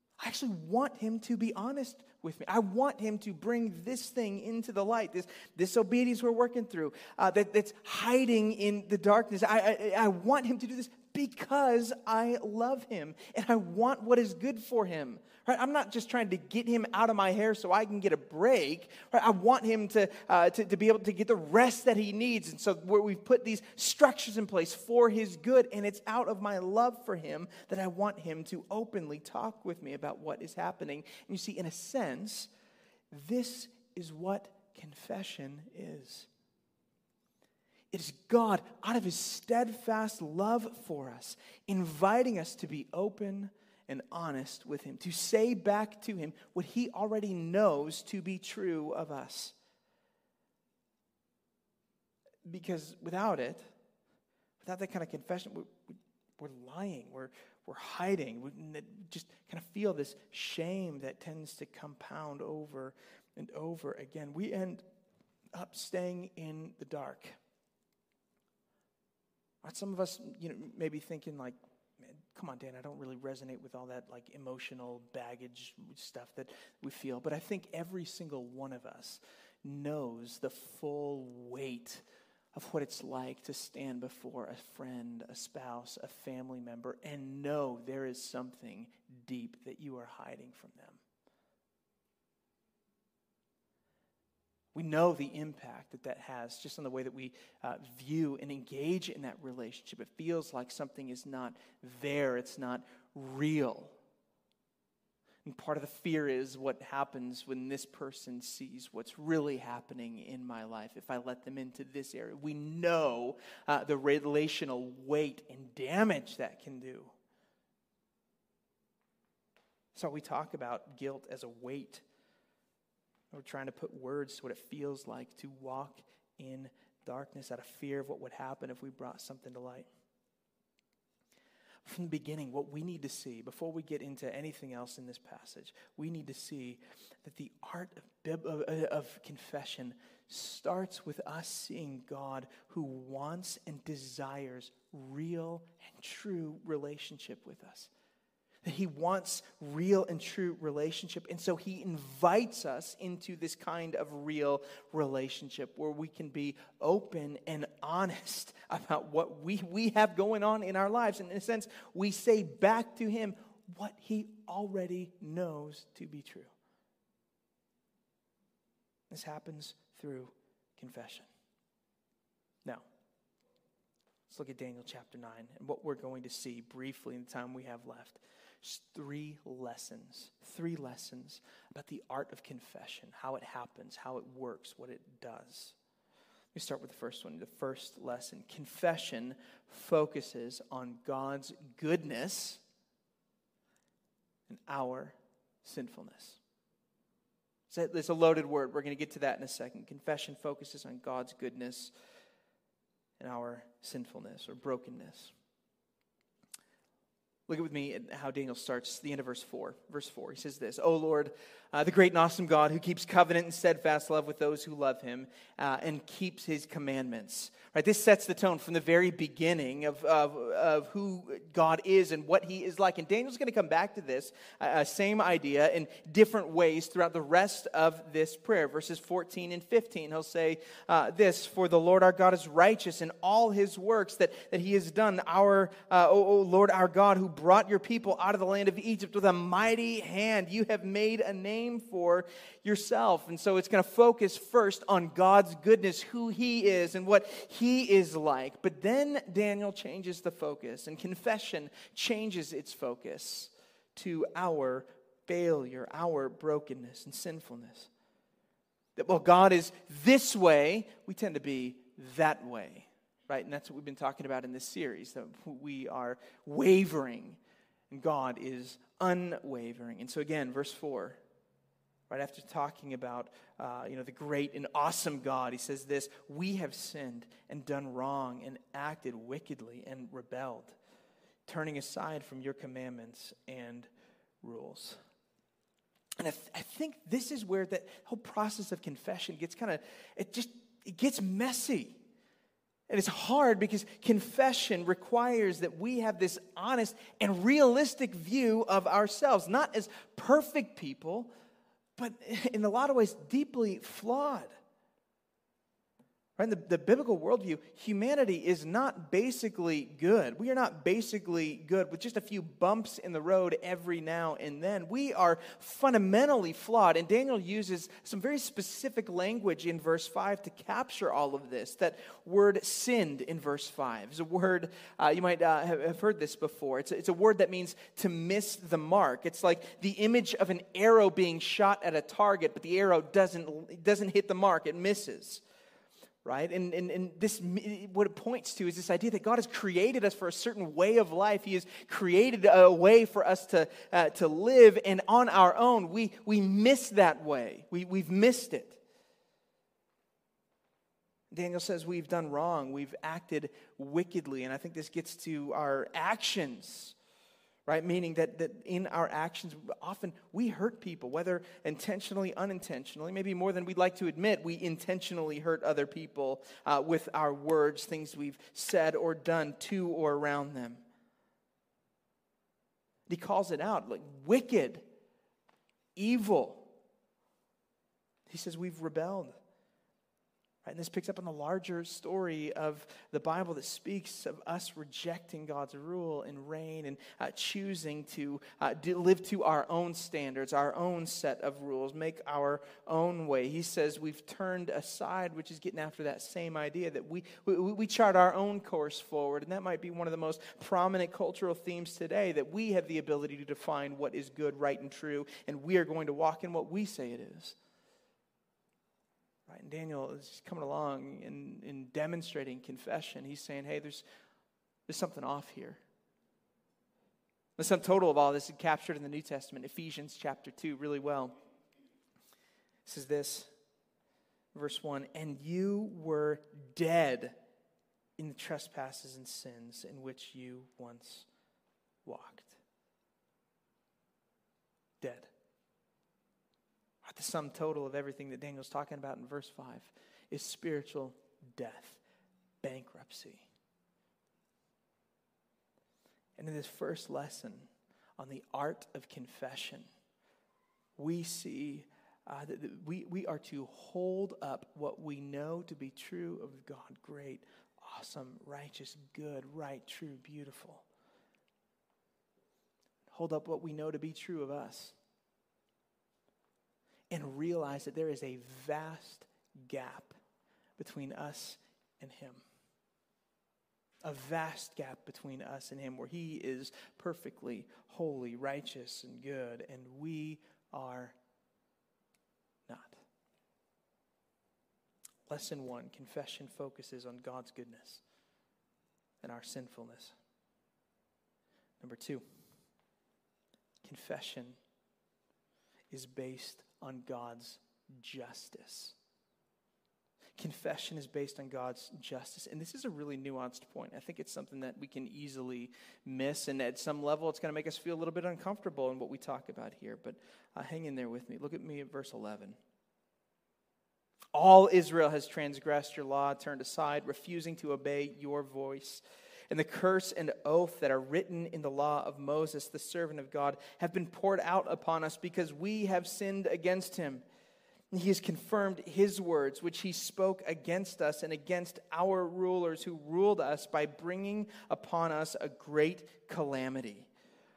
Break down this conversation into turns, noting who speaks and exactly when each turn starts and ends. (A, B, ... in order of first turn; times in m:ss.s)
0:00.2-0:32.5 A
0:33.1-0:36.3 A
0:37.9-0:49.5 A
0:52.4-0:53.6 A
0:54.6-1:04.8 A
1:05.5-1:07.3 A
1:09.6-1:22.0 A
1:22.5-1:31.0 A
1:34.7-1:44.0 A
1:45.4-1:57.1 A
1:59.9-2:02.0 A
2:03.3-2:09.9 A
2:11.8-2:27.9 A
2:28.6-2:46.5 A
2:49.1-2:51.3 A
2:54.3-3:05.8 A
3:06.5-3:12.6 A
3:14.5-3:16.4 A
3:17.7-3:21.9 A
3:23.2-3:25.3 A
3:27.5-4:17.9 A
4:19.0-4:27.4 A
4:27.9-4:31.2 A
4:32.1-4:40.8 A
4:41.4-4:43.9 A
4:44.4-4:45.0 A
4:46.2-4:52.0 A
4:52.9-5:01.3 A
5:02.0-5:04.5 A
5:06.4-5:35.4 A
5:36.2-5:48.8 A
5:51.3-5:56.9 A
5:57.7-6:10.8 A
6:13.1-6:14.8 A
6:16.0-6:16.7 A
6:18.3-6:19.3 A
6:20.6-6:47.6 A
6:49.5-6:54.0 A
6:54.9-6:55.8 A
6:57.6-7:01.3 A
7:02.8-7:03.5 A
7:04.5-7:07.3 A
7:08.2-7:11.3 A
7:12.0-7:12.6 A
7:15.0-7:15.3 A
7:17.0-7:22.0 A
7:22.6-7:23.5 A
7:26.4-7:29.9 A
7:31.0-7:40.8 A
7:43.1-7:45.0 A
7:47.1-7:50.2 A
7:50.8-7:52.4 A
7:54.0-8:01.2 A
8:02.7-8:03.0 A
8:05.3-8:08.0 A
8:09.2-8:10.1 A
8:11.8-8:12.2 A
8:13.8-8:14.6 A
8:15.9-8:18.9 A
8:20.4-8:32.6 A
8:34.3-8:47.2 A
8:47.9-8:57.1 A